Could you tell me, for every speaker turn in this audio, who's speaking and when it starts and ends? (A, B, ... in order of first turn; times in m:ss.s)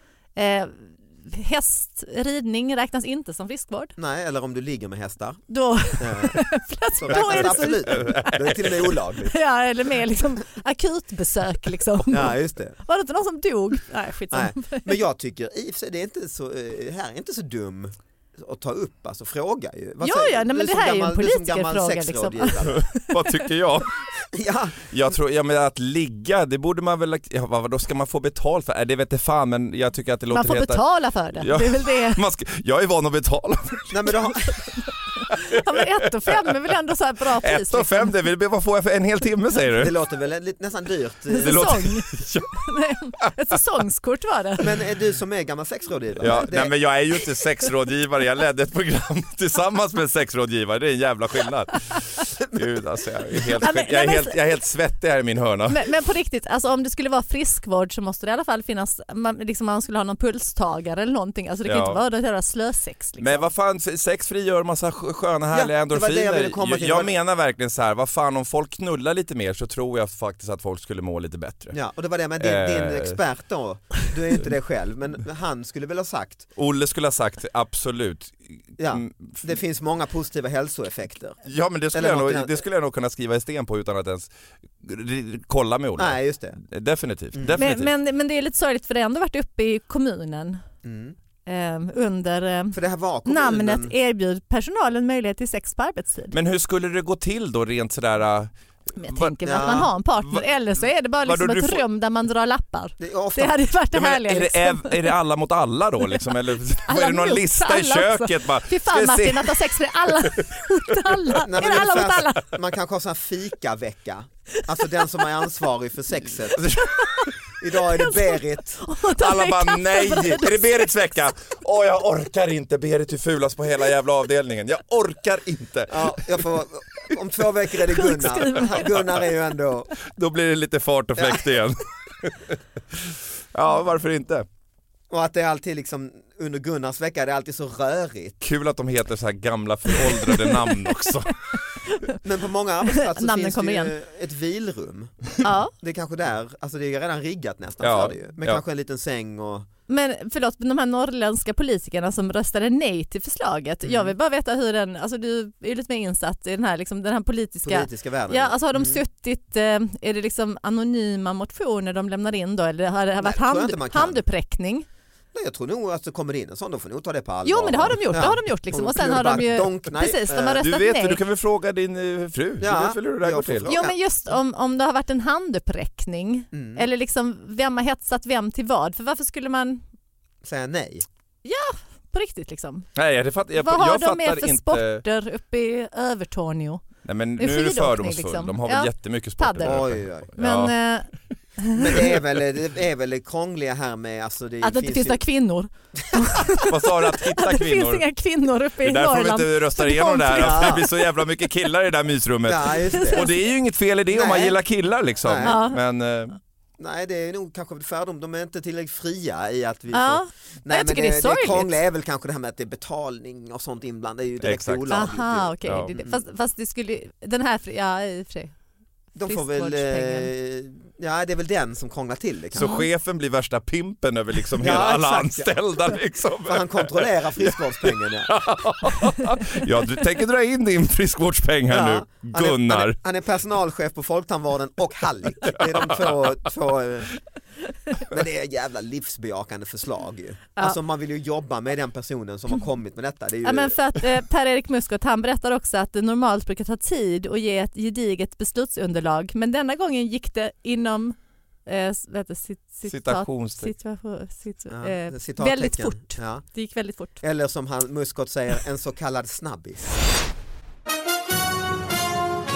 0:00.3-0:03.9 A
0:04.0-0:09.5 B
0:05.5-0:08.5 A
0:07.4-0:08.7 C
0:09.3-0:15.0 A
0:12.1-0:12.8 B
0:14.3-0:22.8 B
0:20.0-0:23.0 A
0:22.7-0:23.9 C
0:24.3-0:24.9 B
0:24.9-0:34.0 C
0:30.3-0:32.2 A
0:33.9-0:34.7 B
0:34.8-0:38.1 A
0:37.4-0:39.9 C
0:39.8-0:41.7 B
0:41.3-0:44.6 A
0:41.4-0:42.6 C
0:44.6-0:46.8 B
0:46.2-0:55.8 C
0:53.6-0:54.4 A
0:55.7-1:03.5 A
1:01.6-1:02.0 C
1:03.2-1:11.8 C
1:05.5-1:07.1 B
1:11.7-1:16.5 B
1:12.4-1:13.2 C
1:16.6-1:19.4 C
1:18.8-1:21.4 B
1:21.4-1:27.9 C
1:21.9-1:22.6 B
1:26.0-1:26.6 B
1:27.3-1:27.6 B
1:27.6-1:30.6 A
1:30.8-1:31.2 B
1:31.4-1:36.3 A
1:32.7-1:33.9 B
1:36.3-1:41.8 C
1:39.0-1:45.0 A
1:39.4-1:39.9 B
1:43.0-1:43.6 B
1:43.9-1:50.1 C
1:46.8-1:52.4 A
1:51.4-1:56.7 B
1:56.6-1:57.3 C
1:56.8-1:57.3 A
1:57.6-1:58.8 B
1:58.0-2:00.9 A
1:59.2-2:06.4 C
2:05.9-2:09.9 B
2:07.9-2:09.1 A
2:10.1-2:14.4 C
2:11.2-2:11.6 B
2:15.1-2:18.4 B
2:18.4-2:21.4 C
2:21.5-2:22.1 A
2:22.2-2:29.7 B
2:22.9-2:23.9 A
2:25.4-2:25.7 A
2:27.8-2:28.6 C
2:29.9-2:44.8 A
2:33.8-2:34.1 B
2:37.6-2:39.0 B
2:43.2-2:44.2 B
2:45.3-2:50.6 B
2:47.4-2:51.2 A
2:50.6-2:53.7 C
2:52.6-2:54.0 B
2:53.7-2:59.8 A
2:56.5-2:56.8 B
3:00.4-3:01.0 B
3:01.4-3:02.9 A
3:03.0-3:05.0 C
3:03.6-3:06.8 A
3:07.0-3:10.7 C
3:07.4-3:11.8 A
3:09.6-3:10.3 B
3:11.7-3:15.2 B
3:14.6-3:16.7 A
3:16.6-3:18.1 C
3:17.4-3:21.5 A
3:18.8-3:26.4 C
3:20.4-3:20.8 B
3:22.4-3:23.2 B
3:23.0-3:23.4 A
3:24.1-3:24.6 B
3:25.2-3:25.6 B
3:25.4-3:25.8 A
3:26.8-3:36.2 B
3:29.9-3:31.7 A
3:34.4-3:36.0 C
3:34.9-3:38.6 A
3:39.1-3:42.8 B
3:39.2-3:40.3 A
3:42.5-3:53.0 C
3:44.6-3:48.6 B
3:51.7-3:57.2 B
3:58.1-4:03.8 B
4:03.4-4:17.2 A
4:12.8-4:13.7 C
4:14.7-4:16.5 B
4:17.1-4:20.0 B